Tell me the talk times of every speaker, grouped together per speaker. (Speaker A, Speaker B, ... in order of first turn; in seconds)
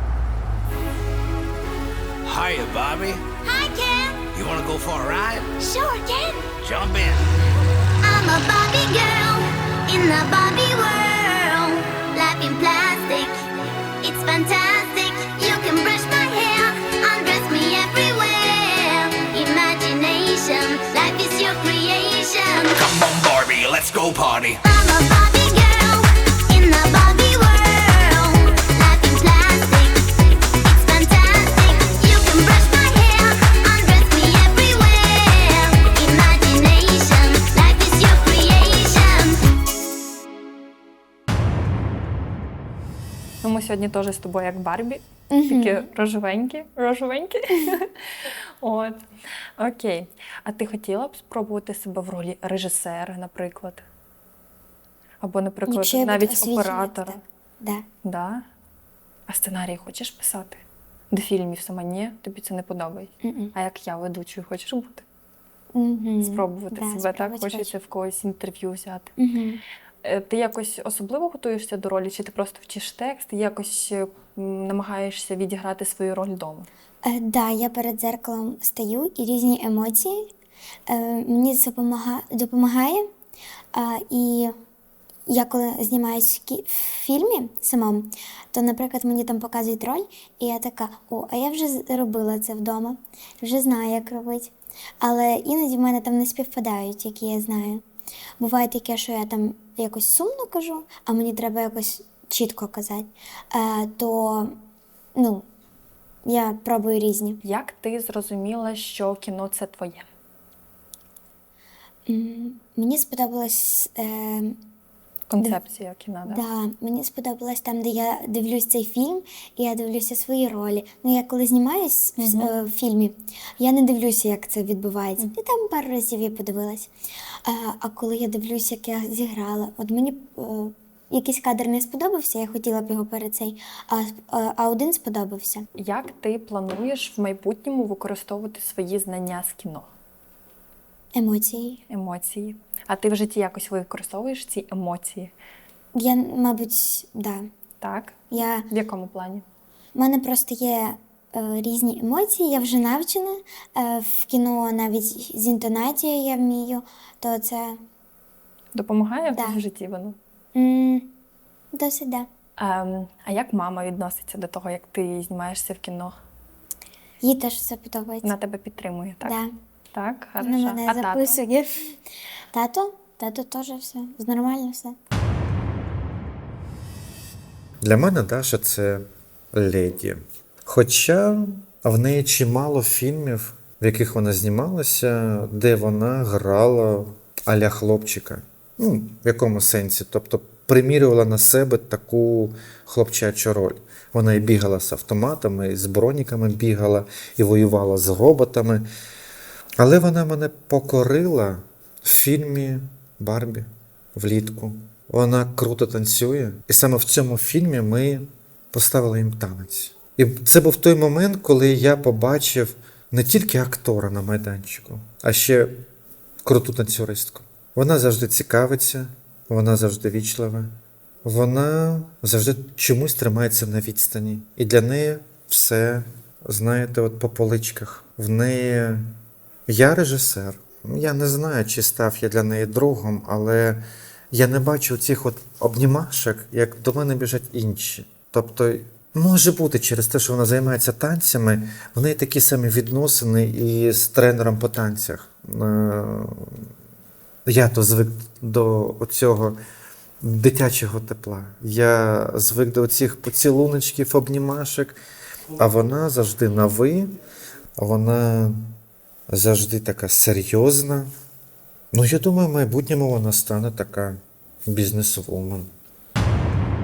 Speaker A: 2.2-3.2, 4.3-5.4, 6.6-7.2, 23.0-24.5
Speaker B: 3.4-4.2, 5.6-6.5, 8.0-13.5, 14.0-22.9, 24.6-30.0, 30.6-39.4
Speaker C: 43.4-47.8, 49.6-53.8, 55.2-57.1, 59.3-60.5, 61.1-64.9, 66.3-69.1, 70.0-73.8, 74.7-76.5, 107.5-110.0, 115.3-116.3, 135.8-139.8, 141.9-145.1, 148.8-149.3, 158.8-160.1, 162.6-166.1, 168.2-169.3, 169.9-171.4
Speaker D: 45.3-45.9, 55.7-57.9, 63.2-63.5, 65.7-67.7, 69.2-69.6, 77.0-80.3, 80.9-83.1, 83.7-84.5, 85.3-97.8, 98.4-104.5, 105.2-105.5, 106.2-107.4, 112.1-114.6, 116.2-126.9, 127.5-135.7, 141.1-141.8, 145.9-147.4, 148.3-148.7, 149.9-157.8, 159.3-159.6, 160.5-161.1, 161.7-162.3, 167.2-168.3, 169.2-169.5, 170.4-172.0, 172.5-174.9
Speaker E: 177.8-198.9, 199.8-215.8, 216.4-229.1, 229.7-246.7, 247.5-249.6, 250.2-255.0, 255.6-257.1, 257.8-258.7, 259.3-261.1, 261.9-265.7